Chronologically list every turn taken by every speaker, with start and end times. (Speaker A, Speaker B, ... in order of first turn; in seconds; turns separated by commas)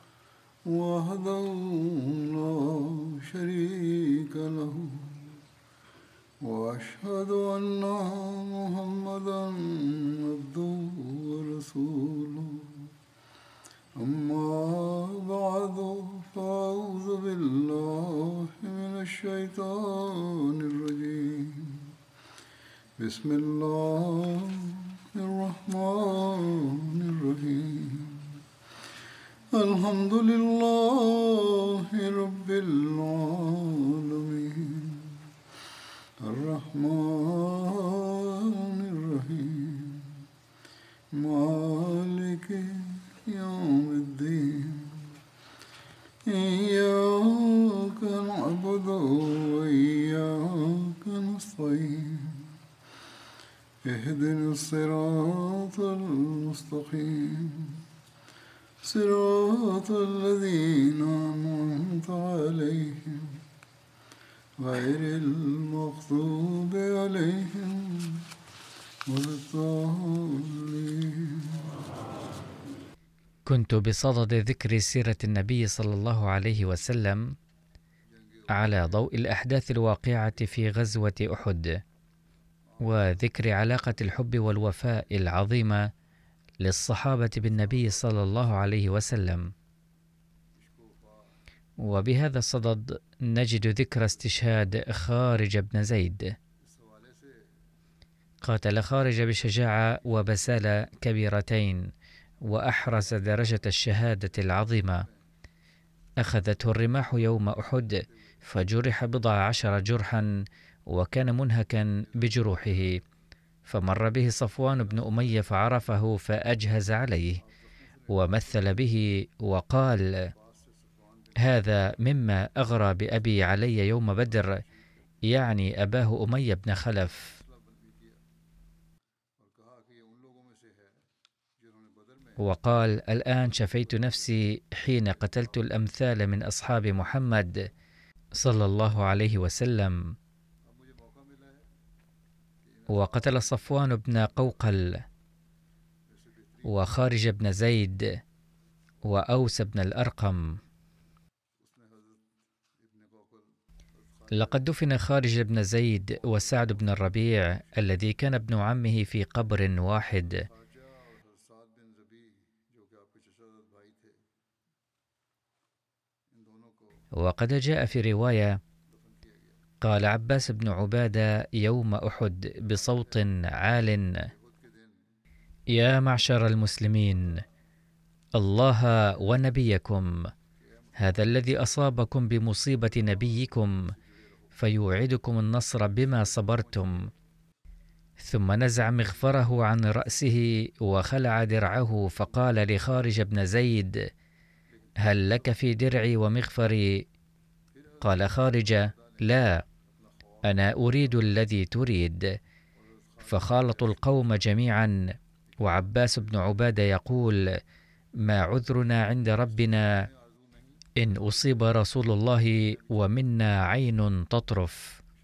Speaker A: 0.7-5.4, Speaker A: 6.4-12.9, Speaker A: 14.0-21.9, Speaker A: 23.0-28.4, Speaker A: 29.5-35.3, Speaker A: 36.2-40.2, Speaker A: 41.1-45.2, Speaker A: 46.3-52.6, Speaker A: 53.8-57.9, Speaker A: 58.8-63.4, Speaker A: 64.6-68.3, Speaker A: 69.1-71.8, Speaker B: 73.5-77.3, Speaker A: 78.2-78.8, Speaker B: 78.5-81.8, Speaker A: 82.8-83.0, Speaker B: 82.8-85.9, Speaker B: 86.6-89.5, Speaker A: 90.6-91.3, Speaker B: 91.8-96.3, Speaker A: 96.7-97.4, Speaker B: 98.4-101.9, Speaker B: 102.4-105.1, Speaker B: 106.2-113.0, Speaker B: 113.7-117.4, Speaker A: 115.0-115.5, Speaker A: 117.9-118.7, Speaker B: 118.1-120.3, Speaker A: 120.4-121.5, Speaker B: 121.3-124.6, Speaker B: 125.2-127.3, Speaker A: 127.2-128.2, Speaker A: 129.4-131.0, Speaker A: 131.6-132.4, Speaker B: 132.4-137.7, Speaker B: 138.4-140.0, Speaker A: 140.7-141.7, Speaker A: 142.7-143.6, Speaker B: 142.9-145.0, Speaker B: 146.7-148.1, Speaker B: 149.0-150.6, Speaker A: 151.6-152.2, Speaker A: 152.8-153.5, Speaker A: 154.1-154.6, Speaker B: 154.3-160.4, Speaker A: 160.3-164.2, Speaker A: 166.4-167.0, Speaker B: 167.2-168.6, Speaker A: 169.0-169.3, Speaker B: 169.8-174.3, Speaker A: 174.3-175.0, Speaker B: 175.7-177.4, Speaker B: 178.4-180.1, Speaker A: 180.8-181.8, Speaker B: 181.0-183.8, Speaker B: 184.6-187.1, Speaker A: 186.4-186.9, Speaker B: 188.2-194.0, Speaker A: 194.8-195.3, Speaker B: 195.0-197.1, Speaker A: 197.8-199.4, Speaker B: 198.0-199.6, Speaker A: 200.0-200.9, Speaker B: 200.4-202.3, Speaker A: 202.9-204.2, Speaker B: 203.2-205.0, Speaker B: 205.6-207.4, Speaker B: 208.2-210.1, Speaker A: 209.7-210.9, Speaker B: 211.0-215.0